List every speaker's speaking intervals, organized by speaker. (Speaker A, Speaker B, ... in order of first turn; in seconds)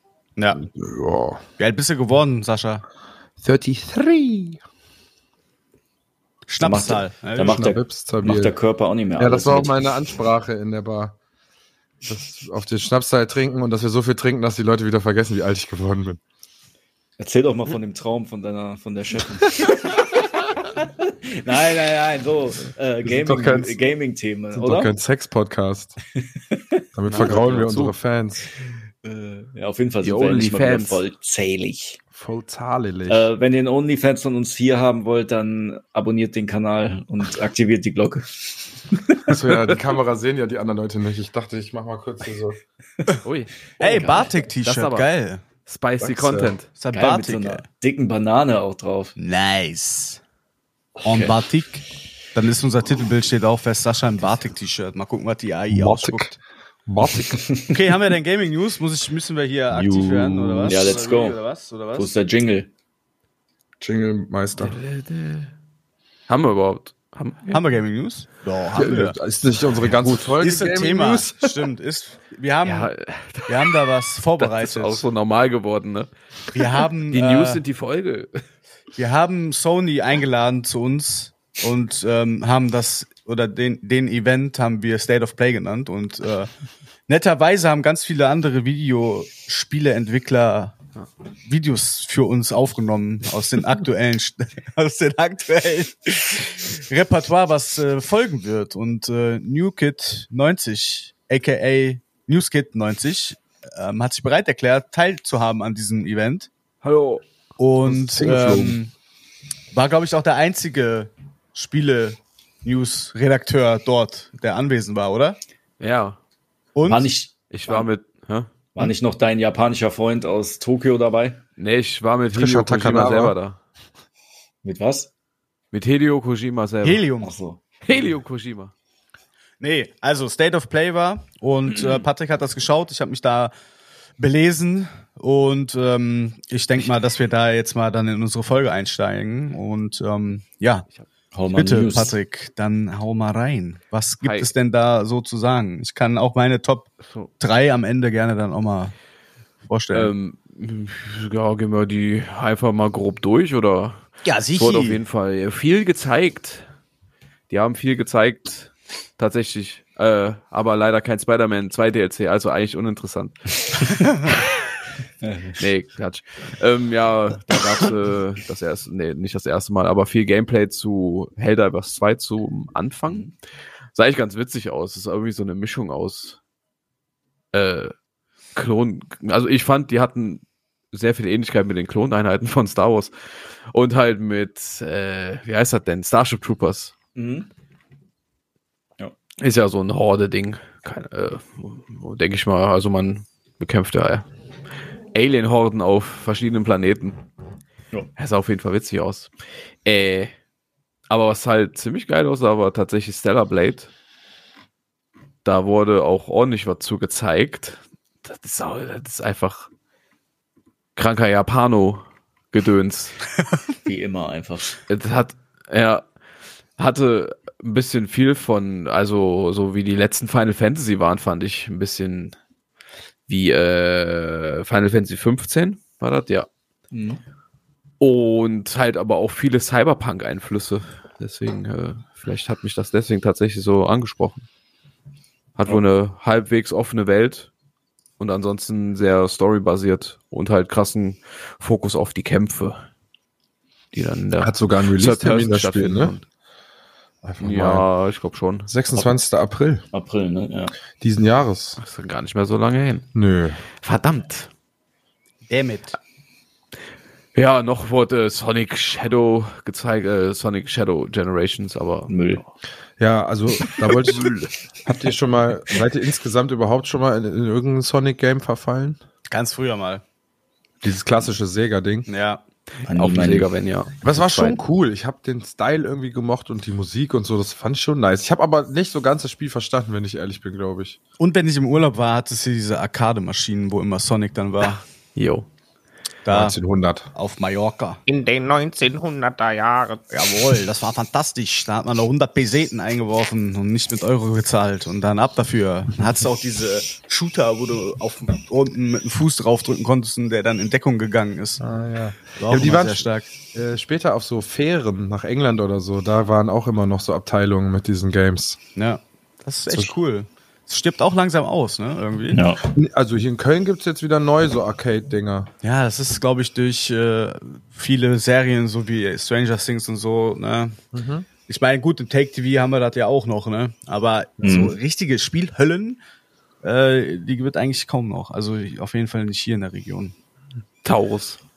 Speaker A: 0.4-0.6, 1.6-2.8, 6.5-7.8, 43.8-45.4, 46.8-47.6, 49.2-50.2, 51.0-56.3, 57.7-62.1, 67.5-69.2, 70.4-72.9, 73.5-75.0, 76.5-77.6, 79.0-86.5, 87.1-90.7, 91.5-106.5, 107.6-108.9, 109.7-115.4, 116.8-117.1, 126.8-127.3, 129.6-133.5, 134.2-140.9, 141.5-148.9, 149.7-150.1, 154.2-155.0, 255.5-256.0, 269.3-270.0, 272.1-272.4, 281.2-284.8, 286.2-286.6, 287.1-288.0, 290.1-301.6, 302.4-303.3, 308.8-312.5, 315.6-320.8, 321.5-326.0, 326.6-330.1
Speaker B: 0.6-1.4, 3.4-4.6, 7.4-8.6, 9.2-11.2, 12.0-16.2, 23.0-23.9, 24.5-26.0, 27.0-28.5, 32.1-33.3, 39.3-42.6, 46.0-46.5, 55.7-57.4, 59.7-61.0, 63.8-64.8, 68.8-71.5, 107.8-108.8, 122.3-123.4, 244.4-246.2, 247.2-247.9, 248.7-249.8, 251.0-251.8, 253.1-253.6, 263.0-269.0, 270.8-272.1, 274.0-281.0, 286.3-287.1, 301.6-308.6, 312.6-315.5, 320.9-321.3
Speaker C: 6.6-9.8, 17.2-20.1, 20.8-24.9, 29.0-32.0, 33.1-39.4, 43.8-44.4, 46.9-49.1, 51.1-51.4, 57.4-57.7, 60.7-61.4, 62.0-62.7, 116.9-117.9, 118.8-121.4, 124.6-125.1, 127.2-128.1, 131.7-132.0, 141.3-142.1, 165.2-165.6, 187.2-187.5, 213.8-214.8, 226.9-227.2, 249.9-250.7, 262.1-262.4, 272.9-273.5, 312.3-312.6, 324.4-324.8
Speaker D: 27.1-27.9, 30.0-31.0, 43.2-43.5, 44.6-45.1, 45.7-46.7, 64.6-65.5, 66.3-67.6, 69.9-70.3, 72.6-73.9, 74.4-76.1, 77.1-78.4, 106.8-107.2, 115.8-116.2, 117.5-118.5, 121.6-123.6, 125.7-127.0, 127.8-128.7, 144.2-144.5, 147.0-147.3, 149.9-156.6, 157.5-164.5, 165.6-173.3, 173.9-176.4, 177.5-177.9, 178.6-180.4, 180.9-183.1, 183.7-186.9, 189.4-194.3, 195.1-197.2, 198.2-199.3, 199.8-200.3, 201.1-203.9, 205.4-209.7, 211.0-213.2, 214.9-216.0, 216.8-222.3, 223.3-226.5, 228.0-234.5, 235.6-237.5, 238.2-242.8, 243.9-246.2, 247.4-249.1, 251.8-253.1, 253.8-254.5, 257.4-262.5, 263.7-264.5, 272.9-274.6, 285.1-285.5, 330.8-331.4
Speaker E: 288.1-290.0